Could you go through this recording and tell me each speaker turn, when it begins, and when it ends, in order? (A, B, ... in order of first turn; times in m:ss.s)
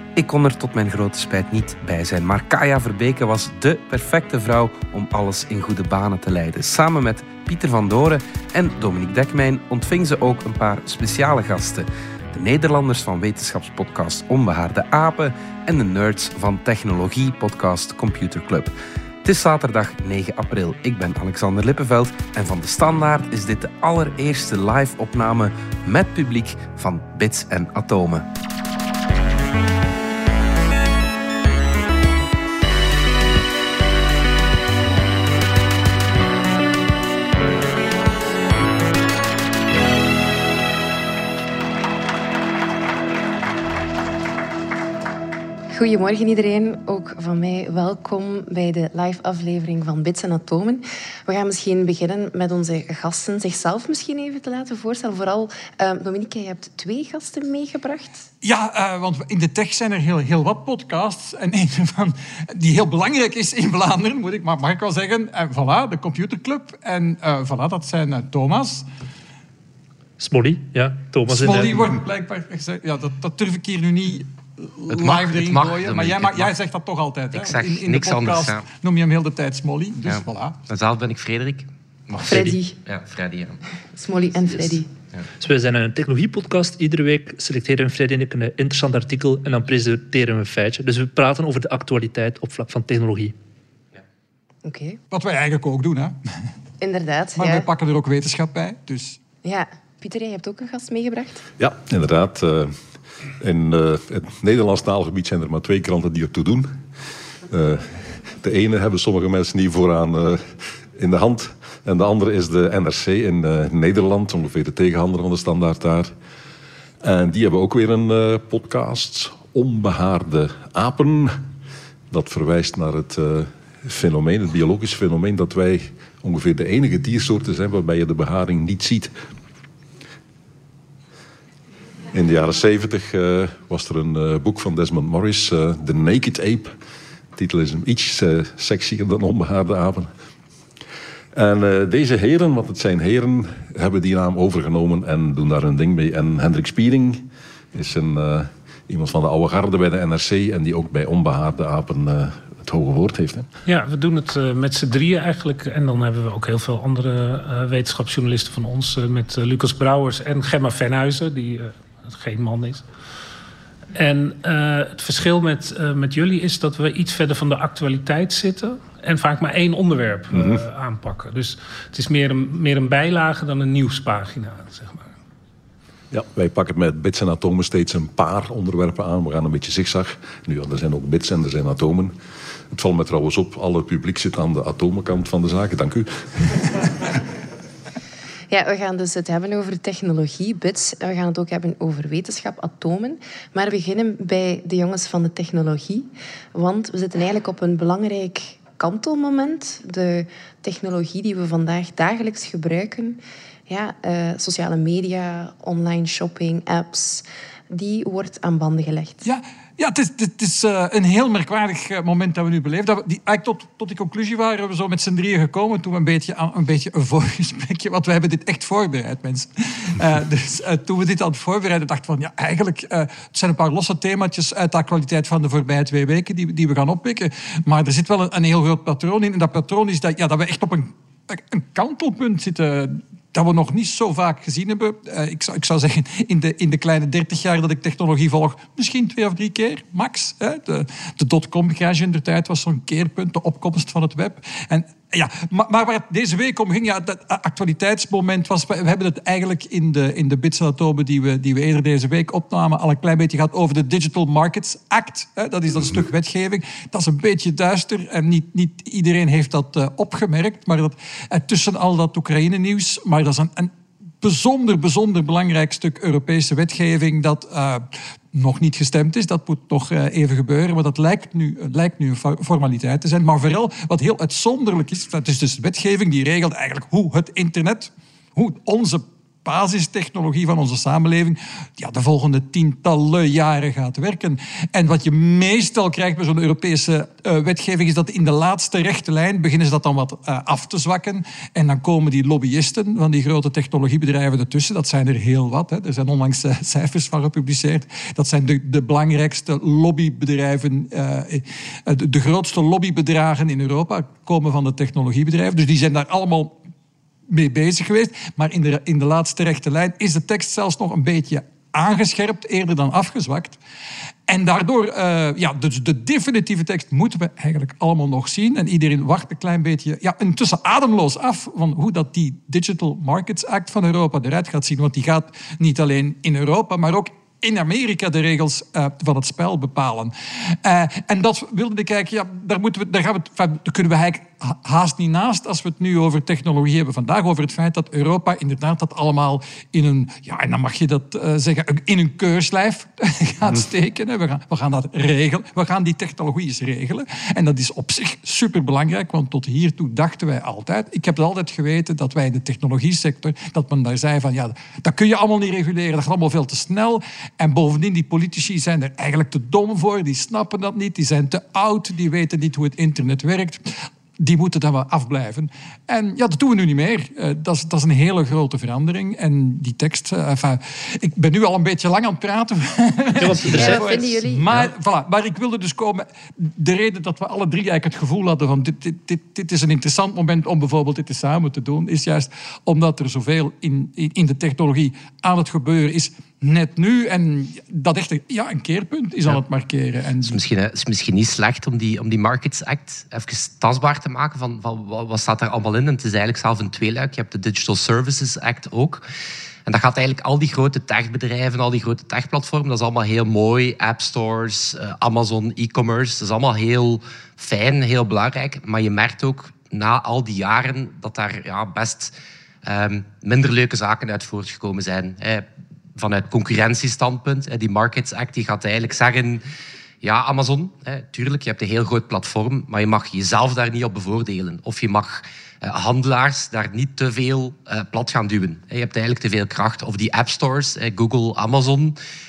0:00.2-0:18.7 A
0:19.2-0:28.3 A
0:45.7-0:58.3 B
0:58.4-1:08.9 C
1:10.2-1:11.9 D
1:11.3-1:20.6 C
1:14.9-1:16.5 E
1:17.3-1:18.6 E
1:20.0-1:23.6 E
1:22.2-1:22.6 D
1:22.2-1:22.8 B
1:23.9-1:24.9 B
1:25.4-1:33.4 D
1:34.6-1:35.0 B
1:35.1-1:36.2 C
1:36.8-1:37.6 B
1:37.4-1:39.2 C
1:39.4-1:41.4 B
1:41.6-1:42.8 F
1:43.4-1:46.7 F
1:47.5-1:56.1 F
1:57.0-2:01.4 F
2:02.1-2:09.1 F
2:12.1-2:16.8 F
2:17.4-2:20.1 F
2:21.4-2:33.5 F
2:33.7-2:42.8 G
2:44.0-2:55.1 G
2:50.3-2:50.6 F
2:56.1-3:02.1 F
3:02.7-3:06.9 F
3:08.5-3:29.2 B
3:29.2-5:06.6 C
5:07.3-5:13.6 C
5:14.3-6:30.4 C
6:13.2-6:13.9 D
6:13.4-6:14.7 B
6:30.2-6:39.0 E
6:39.7-6:55.4 E
6:56.0-6:59.4 E
7:00.0-7:12.0 E